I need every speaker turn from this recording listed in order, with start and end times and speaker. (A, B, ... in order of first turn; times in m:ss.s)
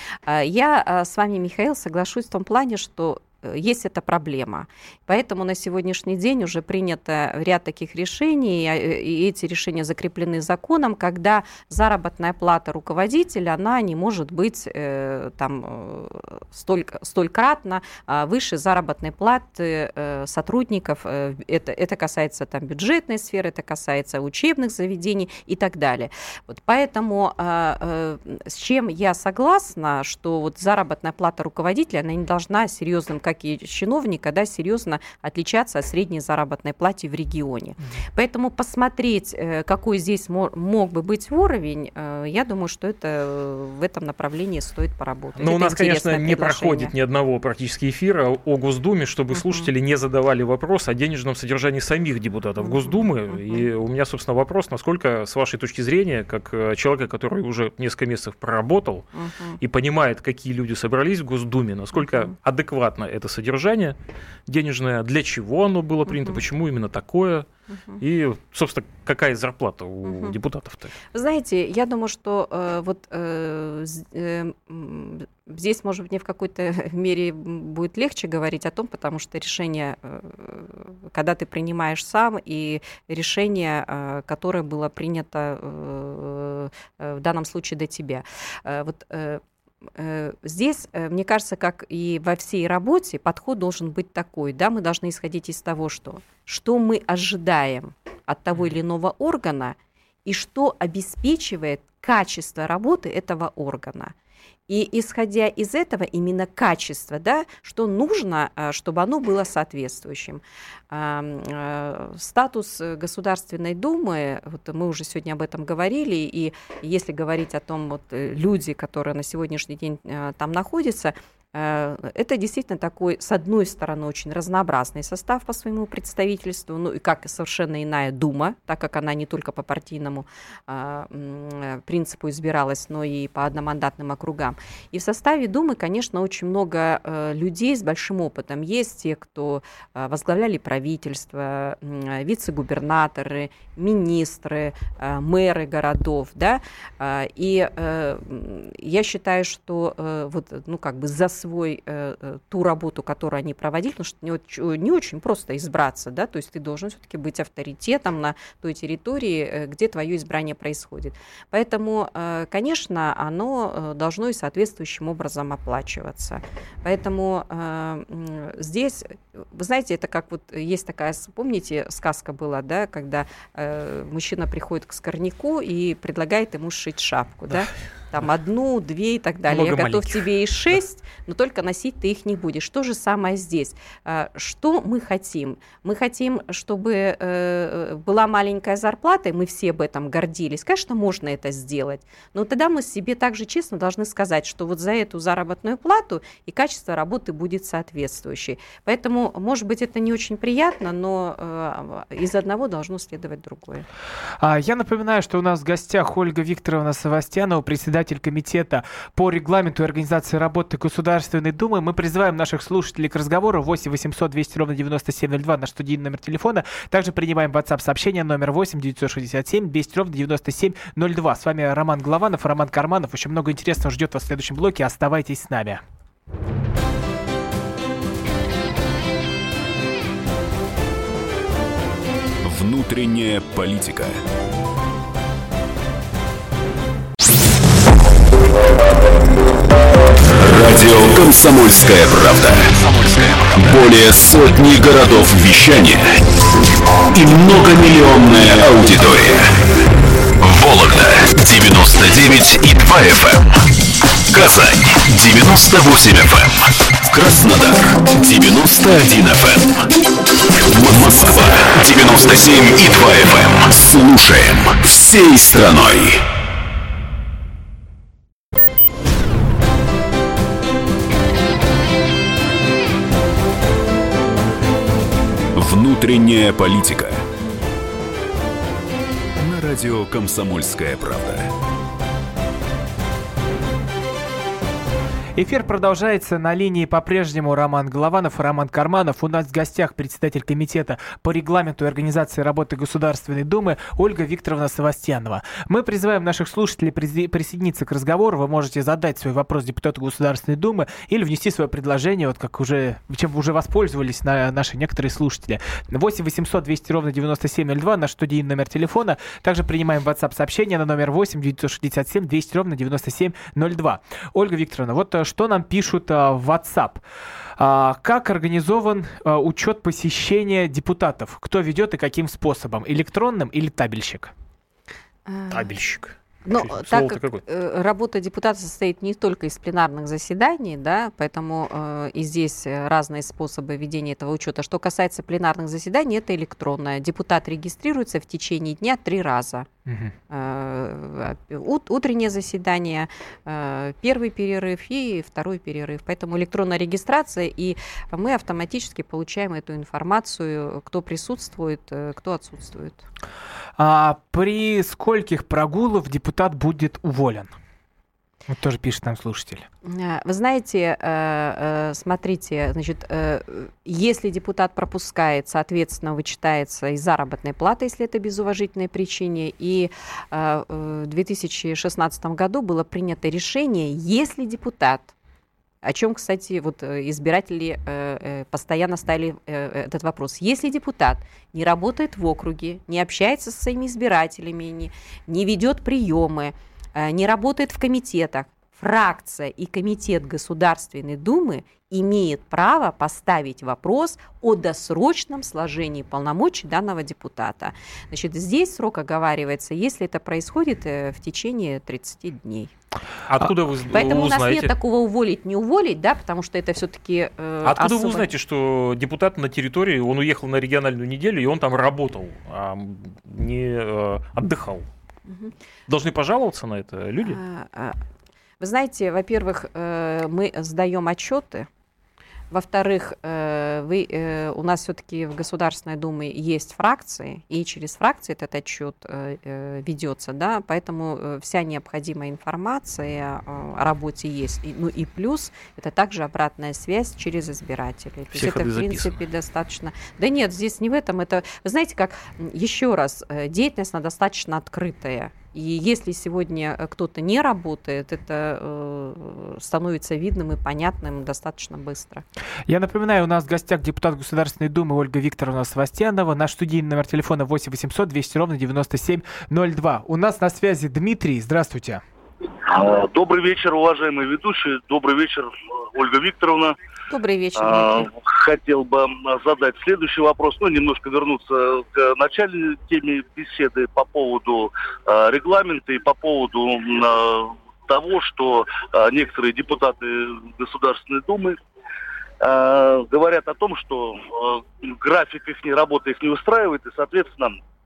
0:00.3-0:46.9 A
0:45.4-0:59.1 B
0:49.3-0:49.7 A
0:52.6-0:53.6 A
0:59.1-0:59.6 A
0:59.6-1:03.9 B
1:02.0-1:02.3 A
1:04.5-1:07.5 B
1:06.1-1:06.4 A
1:07.7-1:08.0 A
1:08.0-1:10.9 B
1:10.0-1:10.4 A
1:11.1-1:29.4 A
1:30.0-1:44.1 A
1:44.7-3:23.8 A
2:59.5-3:00.3 B
3:24.4-3:45.8 C
3:52.4-3:54.2 D
4:00.3-4:06.1 D
4:07.1-4:09.5 D
4:10.4-4:13.6 D
4:14.3-4:19.9 D
4:20.6-4:26.2 D
4:35.5-4:37.2 D
4:39.4-4:41.5 D
4:45.3-5:17.0 C
5:17.6-5:24.3 C
5:25.3-5:25.7 A
5:25.5-5:27.4 B
5:26.4-5:39.7 A
5:39.8-5:40.1 C
5:40.3-5:53.1 A
5:53.8-5:57.5 C
5:58.5-5:59.7 C
5:59.8-6:15.1 A
6:15.8-6:42.7 A
6:43.3-6:44.7 B
6:43.9-6:48.3 A
6:47.6-6:54.9 B
6:55.3-6:55.5 A
6:55.9-6:57.4 B
6:57.2-6:58.0 A
6:58.6-7:01.7 A
7:02.5-7:32.2 A
7:18.3-7:19.2 B
7:32.7-7:42.0 C
7:42.6-7:46.8 E
7:47.1-7:48.1 A
7:47.6-8:01.6 E
8:02.4-8:07.6 E